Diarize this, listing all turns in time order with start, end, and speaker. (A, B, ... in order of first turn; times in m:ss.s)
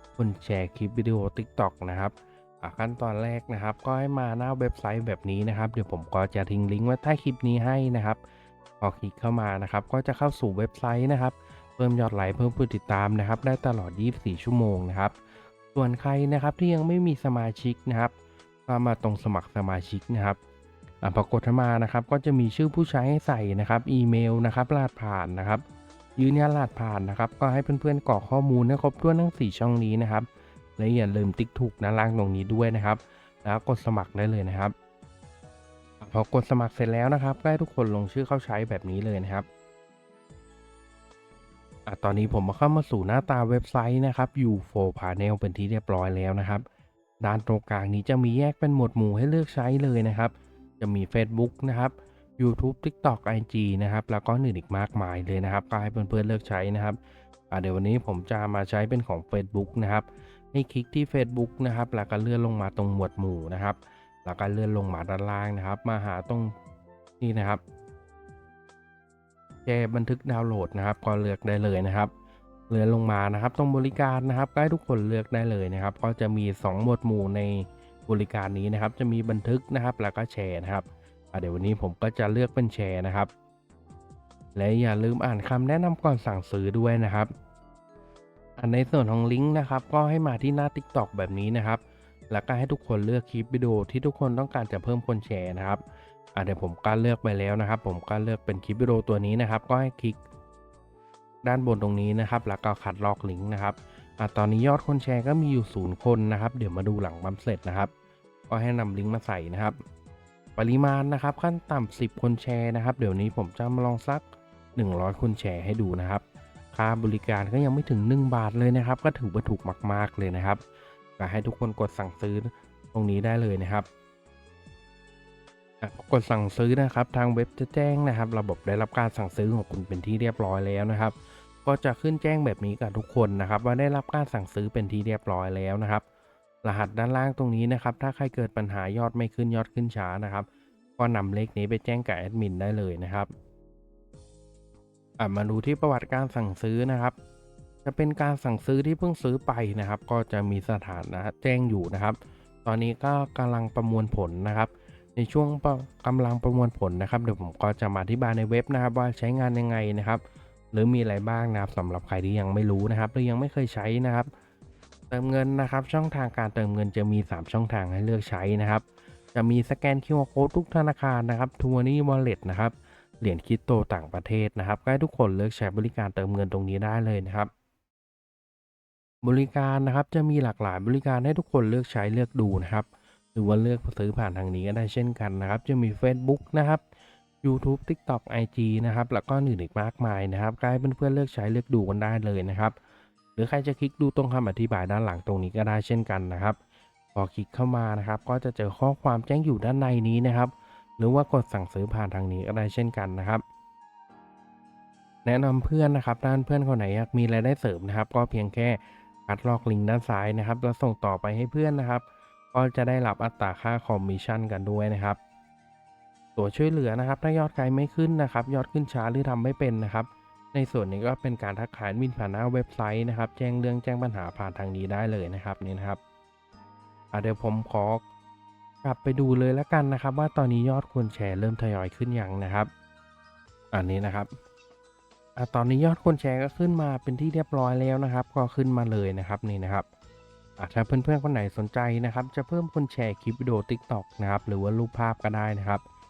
0:00.2-0:08.2 A
0:08.8-0:15.2 A
0:15.7-0:18.1 A
0:18.7-0:20.4 A
0:21.0-0:25.6 A
0:26.2-0:34.7 A
0:36.0-0:39.5 A
0:41.9-0:46.6 A
0:47.2-0:57.0 A
0:57.5-1:06.5 A
1:07.2-1:07.6 A
1:09.7-1:12.1 A
1:12.7-1:23.3 A
1:24.6-1:27.3 A
1:28.6-1:35.8 A
1:36.3-1:40.2 A
1:41.4-1:47.9 A
1:48.5-1:49.8 A
1:50.6-1:54.2 A
1:54.8-2:00.6 A
2:01.2-2:03.9 A
2:05.8-2:16.0 A
2:16.6-2:23.3 A
2:25.2-2:27.2 A
2:27.8-2:44.3 A
2:45.1-2:57.5 A
2:59.2-3:06.8 A
3:07.4-3:12.8 A
3:13.4-3:16.6 A
3:17.2-3:23.4 A
3:25.2-3:35.2 A
3:36.4-3:46.0 A
3:47.1-3:48.0 A
3:48.8-3:52.7 A
3:53.7-3:54.3 A
3:55.4-3:59.9 A
4:00.6-4:05.8 A